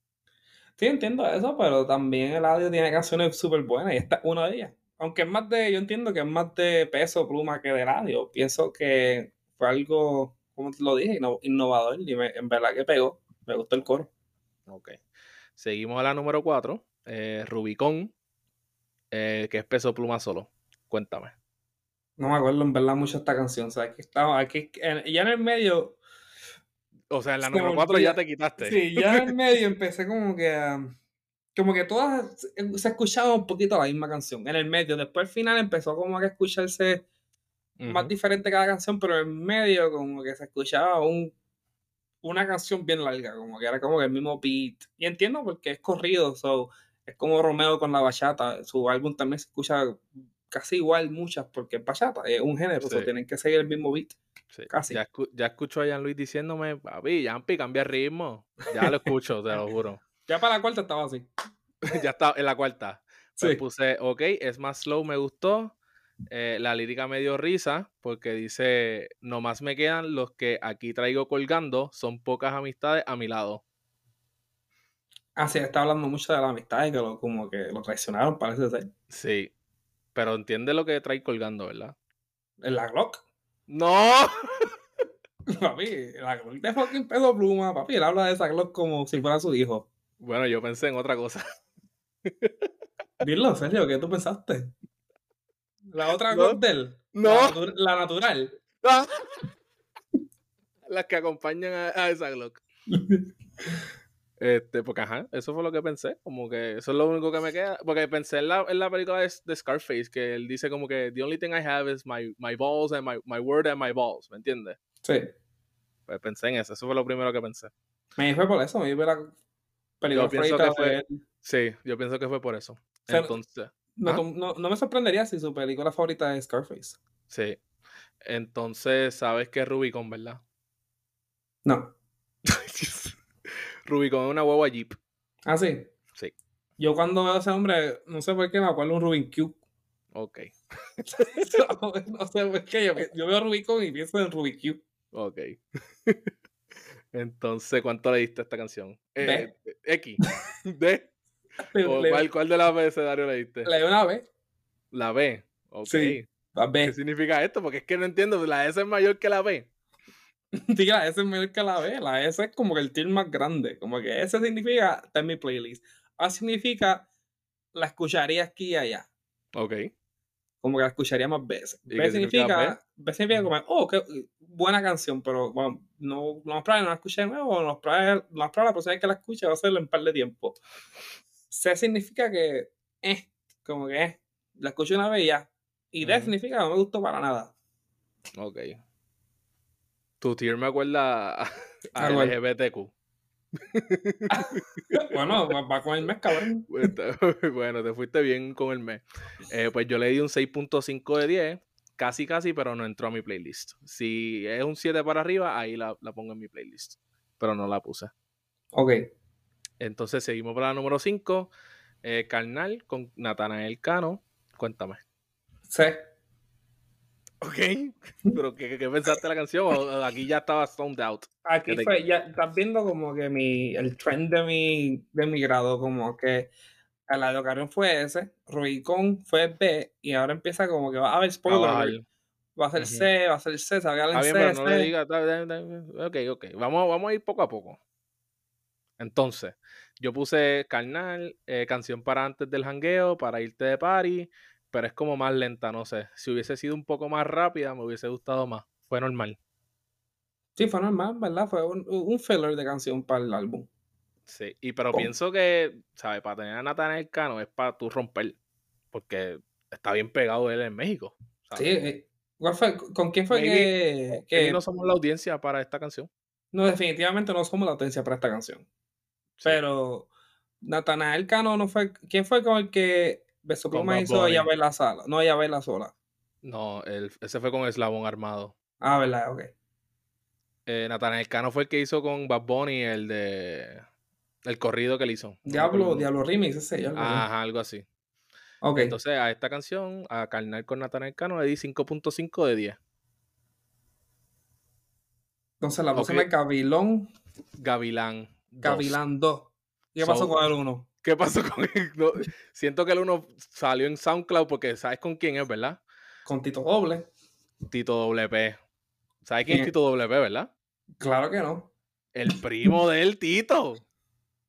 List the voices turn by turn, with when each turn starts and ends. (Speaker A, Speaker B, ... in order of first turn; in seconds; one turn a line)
Speaker A: 0.8-14.1
Speaker B: 14.7-15.0
Speaker B: 15.6-18.1
Speaker B: 19.1-21.3
Speaker A: 22.2-26.0
Speaker B: 27.1-29.3
Speaker A: 27.4-30.9
Speaker A: 31.5-37.0
Speaker B: 37.8-38.1
Speaker A: 37.9-41.3
Speaker A: 42.2-54.2
Speaker B: 52.8-53.1
Speaker B: 54.5-60.0
Speaker A: 54.7-55.0
Speaker A: 60.3-61.3
Speaker B: 61.8-65.8
Speaker B: 66.3-73.6
Speaker A: 75.3-78.9
Speaker B: 79.1-79.5
Speaker B: 80.1-82.0
Speaker A: 82.6-83.2
Speaker B: 83.7-84.7
Speaker A: 85.5-89.9
Speaker B: 90.2-91.4
Speaker B: 92.3-92.7
Speaker A: 93.2-94.7
Speaker A: 95.9-98.5
Speaker B: 96.3-96.6
Speaker B: 97.1-97.6
Speaker B: 98.8-99.4
Speaker B: 100.8-102.6
Speaker A: 102.9-103.8
Speaker B: 104.4-114.8
Speaker A: 115.0-115.3
Speaker B: 116.1-117.7
Speaker A: 118.2-119.3
Speaker A: 120.0-121.1
Speaker B: 120.1-124.2
Speaker A: 123.1-123.3
Speaker A: 124.0-127.0
Speaker B: 127.3-127.6
Speaker B: 128.2-130.4
Speaker A: 131.6-131.9
Speaker B: 132.4-133.2
Speaker B: 133.8-135.0
Speaker A: 135.4-135.9
Speaker A: 136.8-139.6
Speaker B: 140.1-141.2
Speaker A: 141.1-144.8
Speaker B: 145.1-146.3
Speaker B: 147.1-151.1
Speaker A: 149.2-149.5
Speaker A: 151.7-152.2
Speaker B: 151.8-153.7
Speaker A: 153.6-154.2
Speaker B: 154.9-156.3
Speaker A: 155.8-156.9
Speaker B: 156.8-159.7
Speaker A: 160.6-167.1
Speaker A: 167.7-169.1
Speaker B: 169.5-169.9
Speaker A: 170.6-180.6
Speaker B: 171.9-172.8
Speaker A: 181.5-187.5
Speaker B: 186.0-186.3
Speaker B: 188.4-188.8
Speaker B: 190.2-192.9
Speaker A: 192.0-192.3
Speaker B: 193.7-195.4
Speaker A: 194.3-196.7
Speaker B: 196.7-208.1
Speaker A: 208.7-209.0
Speaker B: 209.8-211.5
Speaker B: 212.0-215.0
Speaker A: 215.7-216.0
Speaker B: 217.4-221.9
Speaker A: 221.4-226.5
Speaker A: 227.1-231.9
Speaker B: 231.5-232.0
Speaker A: 232.6-234.9
Speaker B: 232.8-233.1
Speaker B: 234.1-237.8
Speaker B: 239.0-249.4
Speaker A: 250.6-253.7
Speaker B: 254.3-258.4
Speaker B: 258.9-261.9
Speaker A: 261.5-264.6
Speaker B: 263.3-266.1
Speaker A: 266.5-268.7
Speaker A: 269.4-270.1
Speaker A: 270.6-275.9
Speaker B: 273.7-274.5
Speaker B: 276.4-278.5
Speaker A: 278.8-279.5
Speaker B: 280.6-283.8
Speaker B: 284.5-286.1
Speaker A: 285.4-287.2
Speaker B: 286.9-287.8
Speaker A: 288.6-288.9
Speaker B: 288.8-292.8
Speaker A: 295.6-297.1
Speaker B: 295.9-296.3
Speaker B: 297.6-299.0
Speaker A: 298.6-300.9
Speaker B: 300.0-300.4
Speaker B: 301.0-305.8
Speaker A: 306.2-307.1
Speaker B: 307.7-308.6
Speaker B: 309.2-310.5
Speaker A: 311.0-311.7
Speaker B: 312.1-313.8